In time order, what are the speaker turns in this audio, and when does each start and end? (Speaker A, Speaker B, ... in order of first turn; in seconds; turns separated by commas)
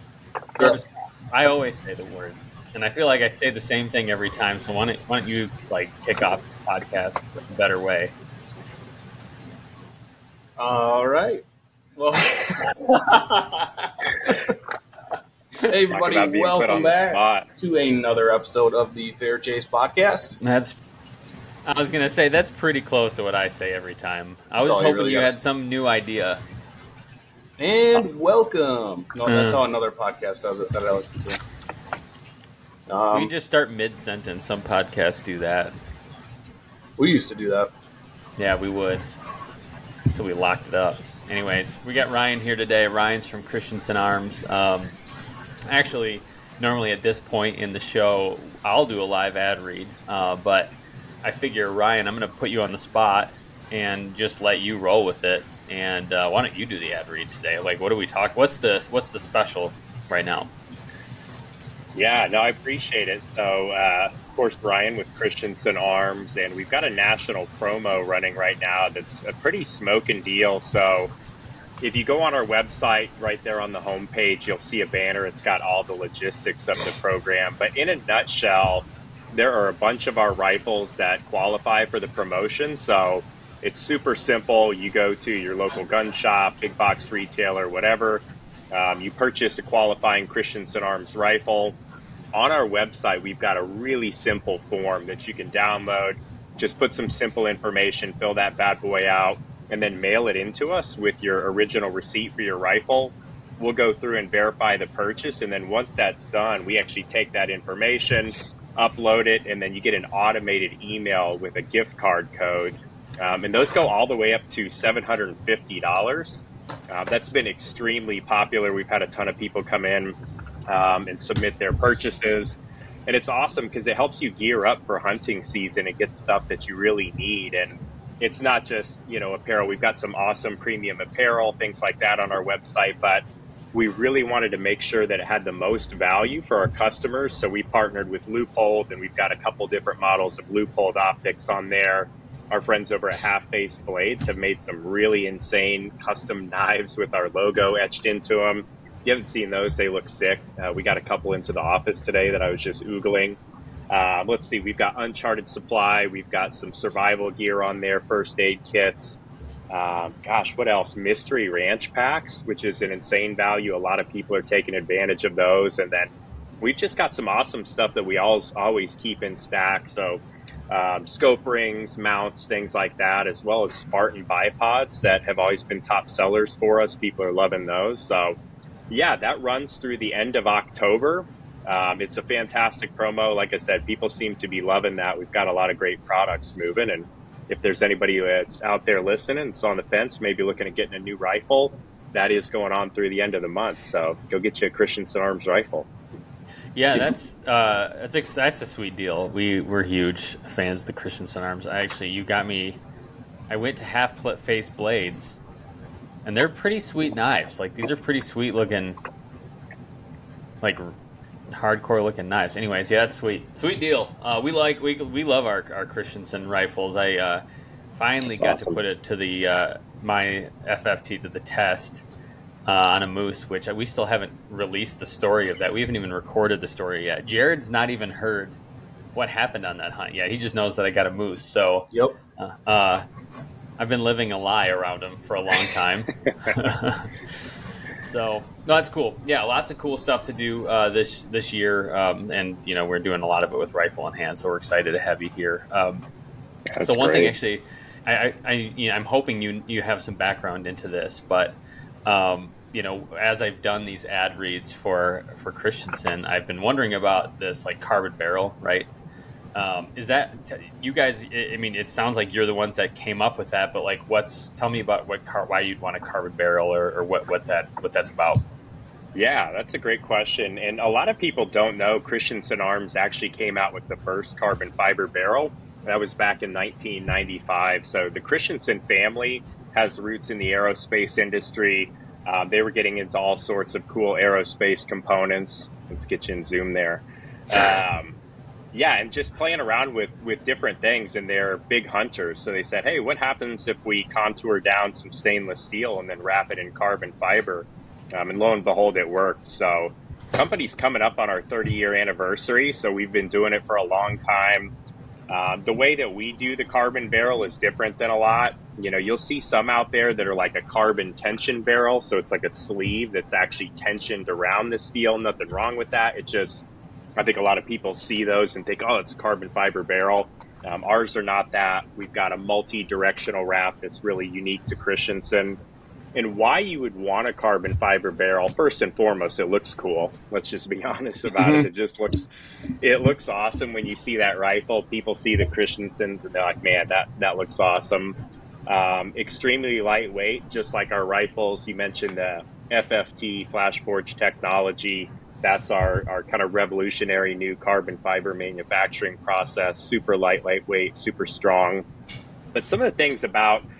Speaker A: 0.6-8.1, Speaker B: 10.6-11.4, Speaker B: 11.9-13.7, Speaker B: 14.2-14.5, Speaker B: 15.6-20.4, Speaker C: 15.9-17.5, Speaker A: 20.4-20.8, Speaker A: 21.6-26.4, Speaker B: 24.6-25.3, Speaker B: 27.6-31.4, Speaker A: 29.2-29.6, Speaker B: 32.9-33.3, Speaker A: 33.1-35.8, Speaker B: 37.0-37.7, Speaker A: 38.4-39.0, Speaker A: 40.1-44.9, Speaker A: 45.7-50.7, Speaker A: 51.2-60.5, Speaker C: 61.9-71.1, Speaker C: 71.8-91.8, Speaker C: 92.3-120.2, Speaker C: 120.7-153.4, Speaker C: 153.9-159.2, Speaker C: 159.7-178.4, Speaker C: 178.9-195.9, Speaker A: 196.7-202.8, Speaker A: 203.5-205.4, Speaker A: 206.2-209.0, Speaker A: 210.6-210.9, Speaker A: 211.5-217.4, Speaker A: 217.9-222.0, Speaker C: 218.3-218.8, Speaker A: 222.7-228.6, Speaker A: 229.1-233.0, Speaker B: 231.9-232.2, Speaker A: 233.8-237.2, Speaker A: 238.0-246.0, Speaker C: 246.7-247.3, Speaker A: 246.8-258.9, Speaker A: 259.5-268.4, Speaker C: 269.1-288.2, Speaker C: 288.7-304.7, Speaker C: 305.3-316.6, Speaker C: 317.1-325.6, Speaker C: 326.1-332.3, Speaker B: 331.3-331.7, Speaker C: 332.8-351.8, Speaker C: 352.5-353.6